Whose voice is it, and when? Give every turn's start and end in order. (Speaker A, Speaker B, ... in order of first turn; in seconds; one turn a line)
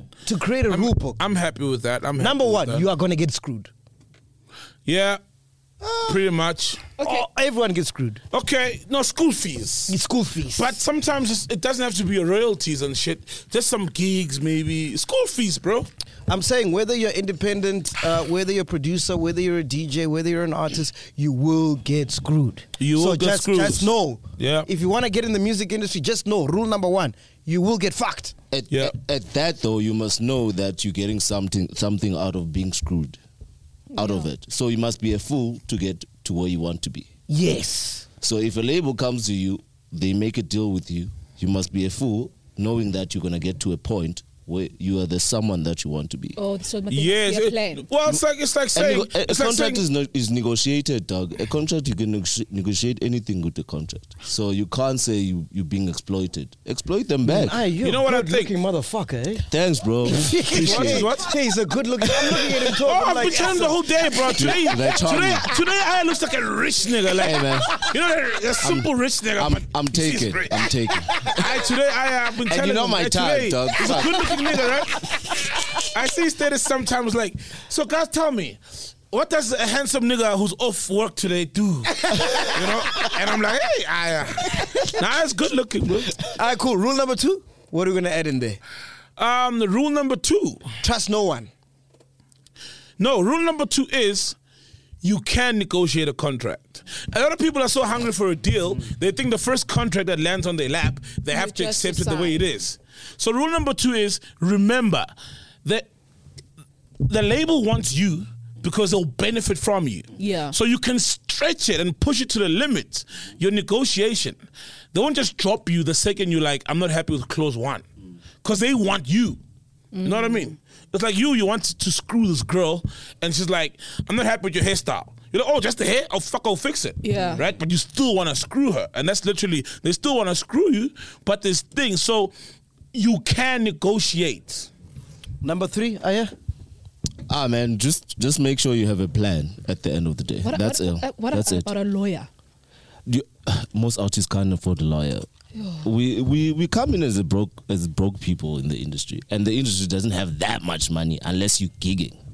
Speaker A: 0.2-1.2
Speaker B: 0.7-2.8
Speaker A: 2.2-3.7
Speaker B: 4.8-5.2
Speaker A: 5.8-6.2
Speaker B: 6.0-6.9
Speaker C: 7.0-7.2
Speaker A: 7.0-8.2
Speaker B: 8.3-10.0
Speaker A: 9.9-10.8
Speaker B: 10.6-15.9
Speaker A: 16.3-28.3
Speaker B: 22.8-24.7
Speaker D: 28.5-33.2
Speaker D: 33.9-37.1
Speaker C: 34.0-34.3
Speaker A: 37.3-38.1
Speaker D: 38.2-46.4
Speaker C: 46.4-47.9
Speaker B: 46.9-49.8
Speaker D: 48.7-57.6
Speaker A: 57.2-59.4
Speaker B: 57.8-58.5
Speaker D: 59.5-61.1
Speaker A: 60.0-63.9
Speaker B: 60.5-61.3
Speaker B: 62.8-78.6
Speaker D: 64.3-65.5
Speaker D: 67.2-67.9
Speaker D: 68.6-71.4
Speaker D: 72.5-74.3
Speaker B: 79.1-86.2
Speaker A: 82.2-82.9
Speaker A: 86.3-88.6
Speaker B: 89.2-90.6
Speaker A: 90.8-91.5
Speaker B: 93.0-94.3
Speaker B: 95.0-105.1
Speaker C: 101.3-102.4
Speaker B: 107.0-114.4
Speaker C: 110.2-110.5
Speaker B: 114.9-117.8
Speaker B: 118.4-119.4
Speaker C: 119.9-120.5
Speaker B: 120.0-132.3
Speaker C: 127.0-127.4
Speaker B: 132.9-134.7
Speaker A: 135.4-136.3
Speaker D: 137.3-141.7
Speaker C: 140.4-142.3
Speaker D: 143.1-145.2
Speaker C: 145.6-145.9
Speaker D: 145.8-152.2